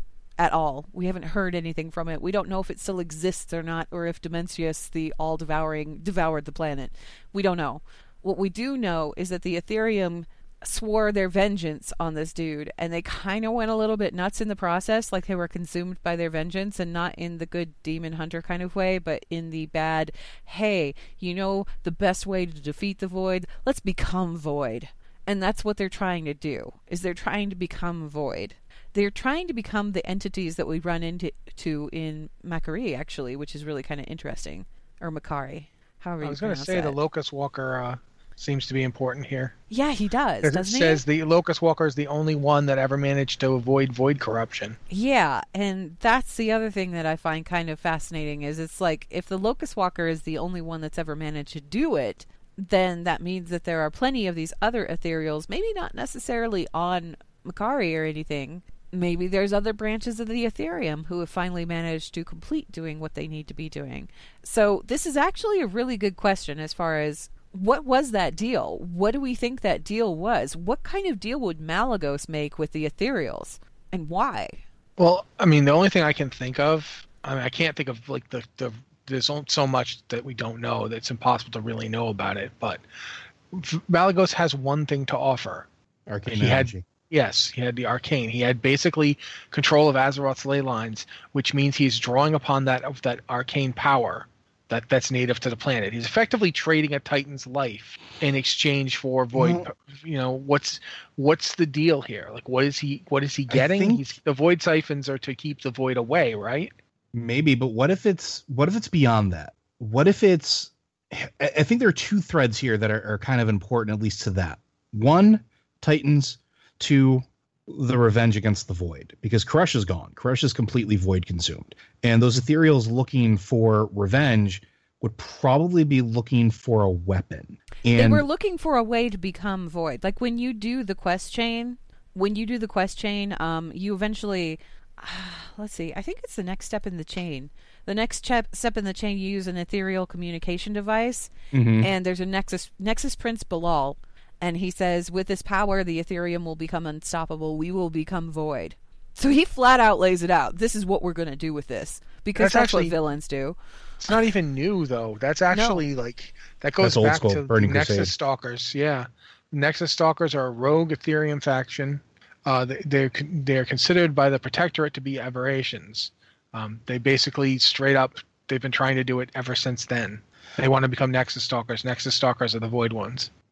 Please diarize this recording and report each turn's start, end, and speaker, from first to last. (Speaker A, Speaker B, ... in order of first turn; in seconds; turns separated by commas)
Speaker A: 0.4-37.0, Speaker B: 36.2-39.5, Speaker A: 39.7-41.0, Speaker B: 40.4-44.8, Speaker A: 44.9-74.6, Speaker B: 75.0-82.8, Speaker B: 83.5-85.7, Speaker C: 86.1-86.9, Speaker B: 86.3-106.7, Speaker C: 99.3-99.7, Speaker C: 103.5-104.0, Speaker C: 107.1-128.2, Speaker A: 127.9-153.6, Speaker C: 141.5-141.9, Speaker B: 152.3-152.9, Speaker B: 154.0-173.3, Speaker A: 155.5-155.8, Speaker C: 156.8-158.1